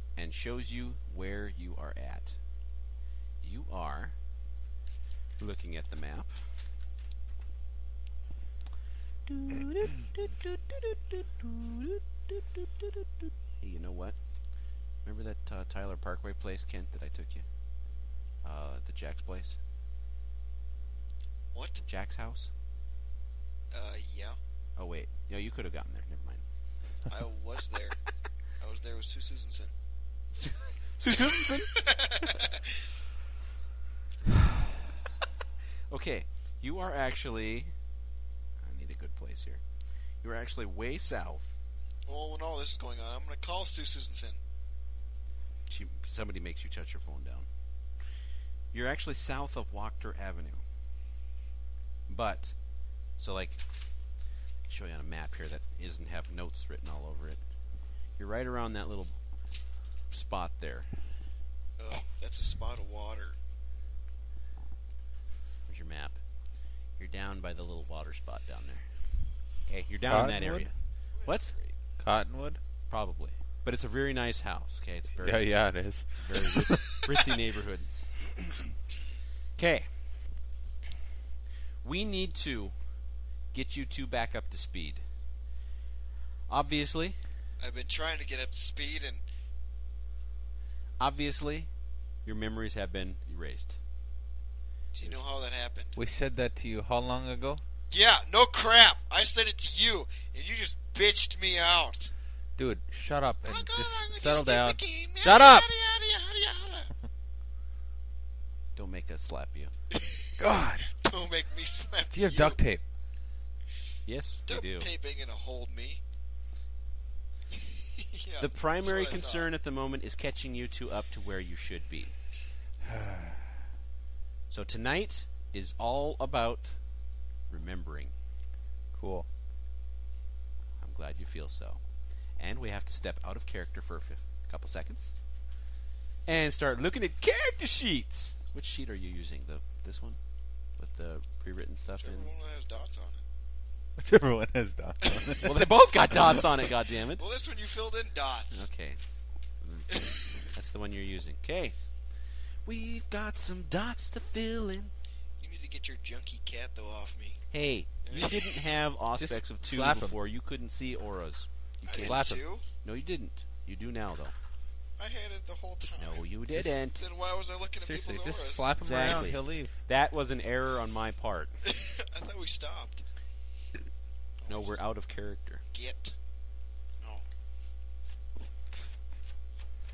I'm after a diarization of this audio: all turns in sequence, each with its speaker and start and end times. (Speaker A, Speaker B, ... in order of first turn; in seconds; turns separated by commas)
Speaker A: 0.1-2.4, Speaker A: 3.4-4.1, Speaker A: 5.4-6.6, Speaker A: 9.2-14.2, Speaker A: 15.0-17.4, Speaker A: 18.4-19.6, Speaker B: 21.5-21.8, Speaker A: 21.9-22.5, Speaker B: 23.7-24.4, Speaker A: 24.8-26.4, Speaker B: 27.1-28.0, Speaker B: 28.6-29.7, Speaker A: 30.3-32.3, Speaker B: 31.3-32.9, Speaker A: 35.9-37.7, Speaker A: 38.6-39.6, Speaker A: 40.2-41.5, Speaker B: 42.0-44.4, Speaker A: 45.7-47.5, Speaker A: 48.7-50.6, Speaker A: 52.1-52.5, Speaker A: 53.2-53.6, Speaker A: 54.7-57.4, Speaker A: 58.2-59.1, Speaker A: 60.1-60.9, Speaker B: 61.8-63.4, Speaker A: 65.7-66.2, Speaker A: 67.0-68.9, Speaker A: 69.7-70.7, Speaker C: 70.1-70.7, Speaker B: 71.2-71.8, Speaker A: 71.2-71.5, Speaker C: 72.0-72.6, Speaker A: 72.9-75.5, Speaker C: 75.2-77.1, Speaker A: 76.2-78.7, Speaker A: 79.6-79.9, Speaker A: 81.8-82.7, Speaker A: 83.5-85.0, Speaker A: 86.5-87.2, Speaker B: 87.6-89.2, Speaker A: 91.0-91.7, Speaker A: 92.2-93.8, Speaker B: 94.9-95.9, Speaker C: 96.0-97.6, Speaker B: 97.9-102.1, Speaker C: 102.6-105.7, Speaker B: 103.4-106.9, Speaker A: 108.7-109.7, Speaker B: 109.9-110.3, Speaker C: 110.4-110.9, Speaker B: 110.9-112.6, Speaker C: 112.1-112.8, Speaker A: 114.0-114.9, Speaker B: 114.5-116.0, Speaker B: 117.5-119.5, Speaker A: 118.4-122.1, Speaker C: 122.8-123.5, Speaker A: 124.5-126.8, Speaker A: 127.5-128.1, Speaker C: 128.9-129.3, Speaker A: 130.8-131.8, Speaker A: 132.4-135.1, Speaker A: 136.2-140.2, Speaker A: 140.8-142.3, Speaker B: 142.0-143.2, Speaker C: 144.0-146.2, Speaker B: 145.0-145.3, Speaker A: 145.4-147.2, Speaker B: 147.1-148.7, Speaker A: 148.5-149.0, Speaker A: 149.6-151.8, Speaker B: 149.9-150.2, Speaker A: 152.6-154.9, Speaker B: 155.4-157.4, Speaker A: 157.5-164.3, Speaker B: 158.0-158.7, Speaker C: 159.2-160.2, Speaker B: 161.8-162.6, Speaker C: 161.9-162.4, Speaker B: 165.0-168.7, Speaker A: 166.0-167.0, Speaker C: 167.8-169.8, Speaker A: 168.8-171.5, Speaker B: 171.6-173.0, Speaker B: 174.4-174.8, Speaker A: 174.5-175.6, Speaker B: 175.7-176.2